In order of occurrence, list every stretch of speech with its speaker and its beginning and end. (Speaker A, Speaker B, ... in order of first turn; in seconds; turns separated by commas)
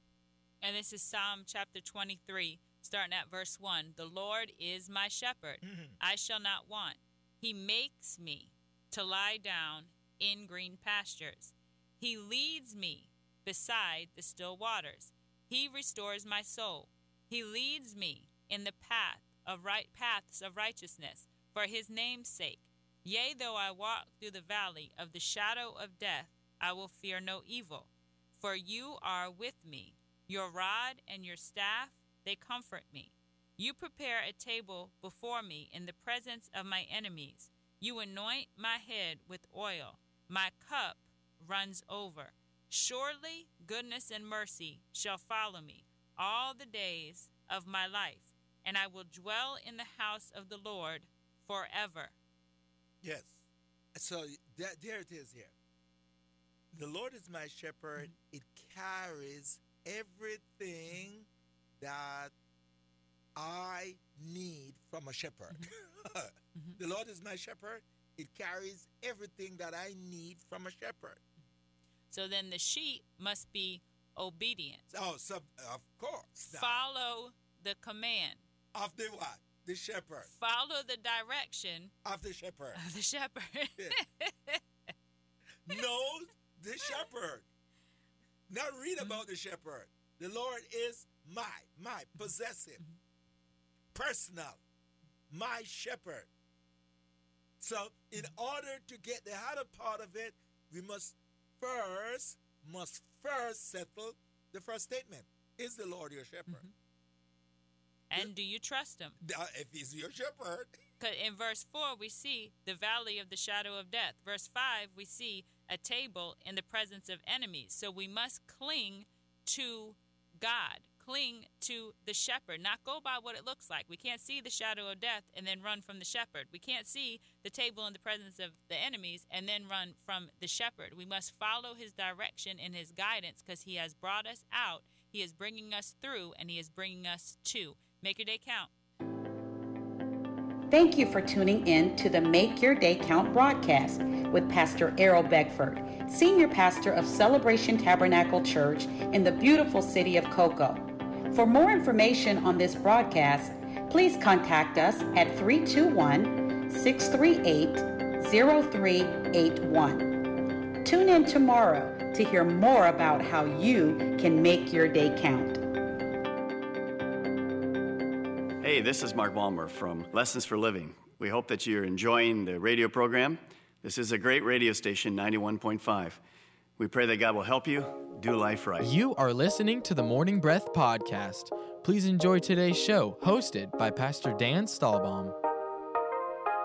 Speaker A: 0.6-52.1, Speaker B: 5.6-6.0, Speaker B: 53.0-53.4, Speaker B: 53.9-55.5, Speaker B: 56.7-61.3, Speaker B: 61.8-62.3, Speaker B: 63.4-71.2, Speaker A: 72.1-74.8, Speaker B: 74.9-76.8, Speaker A: 76.5-78.4, Speaker B: 78.7-80.3, Speaker A: 80.2-81.9, Speaker B: 82.0-82.8, Speaker A: 82.8-84.6, Speaker B: 85.7-87.5, Speaker B: 88.5-92.8, Speaker B: 93.9-94.6, Speaker B: 95.3-96.3, Speaker B: 97.6-106.6, Speaker A: 108.1-109.2, Speaker B: 109.2-110.8, Speaker A: 111.0-138.7, Speaker C: 140.7-160.3, Speaker C: 160.8-165.6, Speaker D: 168.6-176.2, Speaker D: 176.8-178.9, Speaker E: 178.8-185.3